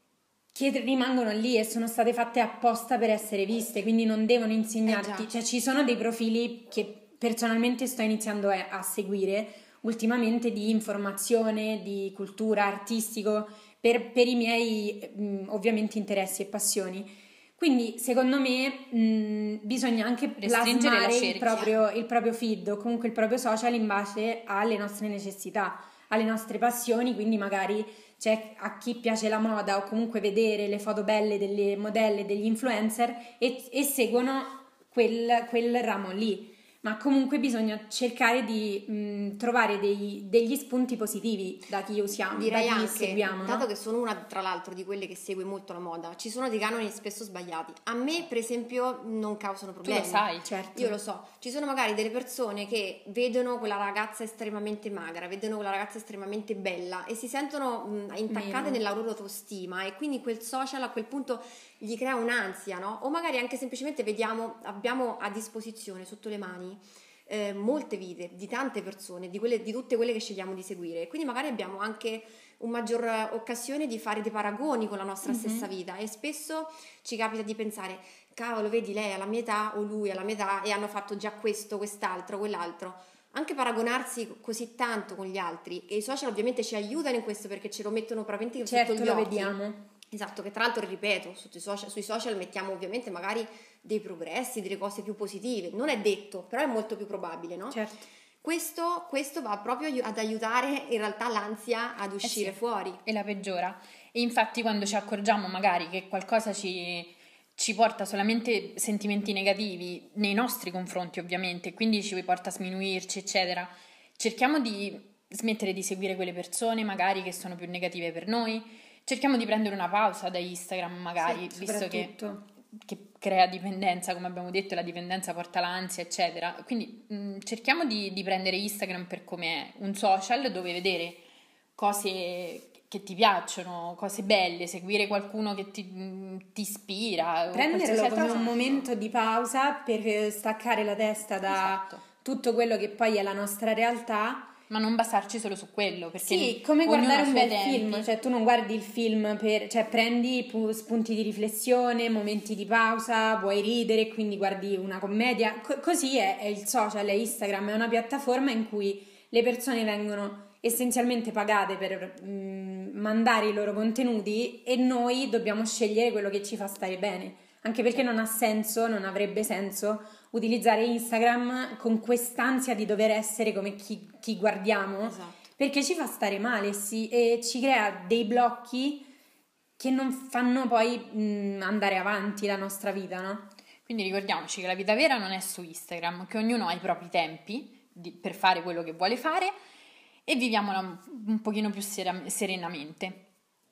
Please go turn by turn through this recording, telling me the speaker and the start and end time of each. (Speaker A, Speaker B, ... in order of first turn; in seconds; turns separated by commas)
Speaker A: 0.5-43.7, Speaker B: 4.9-5.3, Speaker C: 20.4-21.8, Speaker B: 42.3-89.5, Speaker C: 49.8-50.5, Speaker A: 50.5-51.0, Speaker A: 58.3-58.8, Speaker A: 75.2-75.7, Speaker A: 88.6-89.8, Speaker B: 90.1-97.8, Speaker A: 97.7-98.1, Speaker B: 98.4-103.0, Speaker C: 102.2-122.1, Speaker A: 121.2-122.4, Speaker C: 122.8-131.2, Speaker C: 131.8-138.9, Speaker A: 137.5-144.5, Speaker C: 141.5-142.0, Speaker C: 144.7-148.1, Speaker A: 146.2-179.1, Speaker B: 175.0-175.5, Speaker A: 179.8-183.5, Speaker C: 183.8-189.5, Speaker C: 190.3-193.2